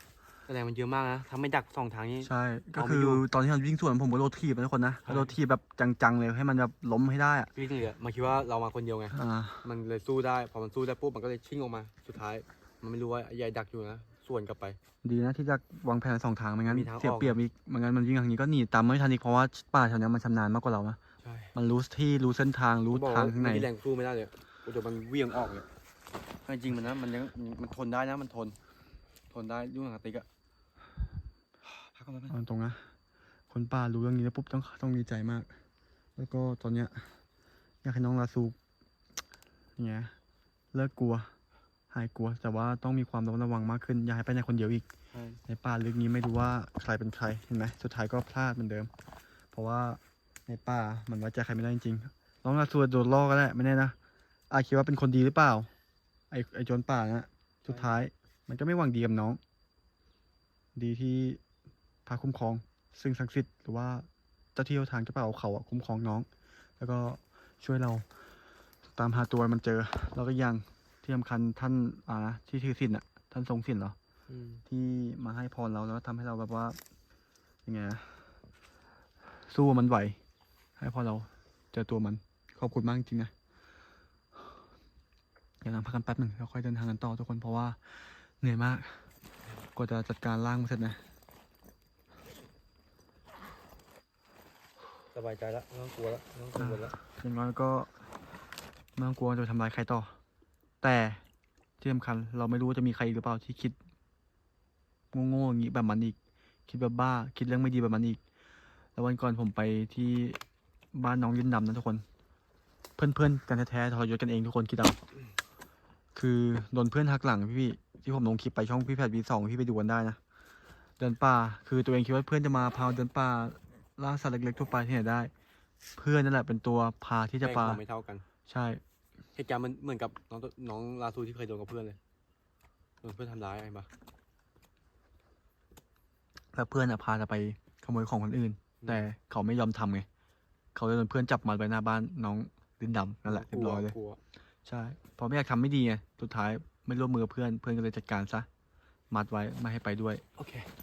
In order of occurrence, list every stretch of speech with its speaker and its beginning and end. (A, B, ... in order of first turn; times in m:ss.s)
0:00.5-0:03.3 A
0:02.2-0:07.5 B
0:05.0-0:05.4 A
0:07.5-0:14.8 A
0:09.1-0:09.6 B
0:15.0-0:21.0 B
0:16.6-0:17.4 A
0:21.2-0:21.5 A
0:21.5-0:23.7 B
0:22.9-0:25.7 A
0:26.4-0:28.6 A
0:29.3-0:30.3 A
0:31.6-0:32.4 A
0:32.3-0:32.9 B
0:33.5-0:35.5 B
0:36.2-0:37.1 B
0:37.8-0:38.6 B
0:39.8-0:40.2 B
0:40.7-0:41.3 B
0:41.9-0:44.8 B
0:45.1-0:45.4 A
0:45.5-0:48.9 B
0:49.5-0:54.0 B
0:54.5-0:55.7 B
0:56.3-0:59.4 B
0:57.7-0:58.0 A
1:00.8-1:01.4 B
1:02.1-1:06.3 B
1:06.8-1:08.1 B
1:09.0-1:14.0 B
1:14.3-1:14.6 A
1:14.7-1:16.8 B
1:17.6-1:18.2 B
1:19.5-1:20.2 B
1:20.8-1:23.3 B
1:25.6-1:29.1 B
1:29.8-1:31.0 B
1:35.1-1:37.0 A
1:36.6-1:37.9 B
1:39.0-1:40.2 B
1:40.8-1:41.2 B
1:41.8-1:43.8 B
1:45.1-1:46.2 B
1:46.7-1:48.2 B
1:49.0-1:50.4 B
1:50.9-1:52.0 B
1:53.0-1:55.0 B
1:56.2-2:00.2 B
2:01.0-2:05.3 B
2:06.0-2:07.8 B
2:07.4-2:08.2 A
2:08.5-2:08.8 B
2:09.4-2:12.0 A
2:13.0-2:13.9 A
2:16.5-2:20.1 B
2:18.8-2:19.1 A
2:20.8-2:24.0 B
2:23.3-2:24.2 A
2:24.7-2:28.5 B
2:29.1-2:30.2 B
2:30.4-2:30.7 A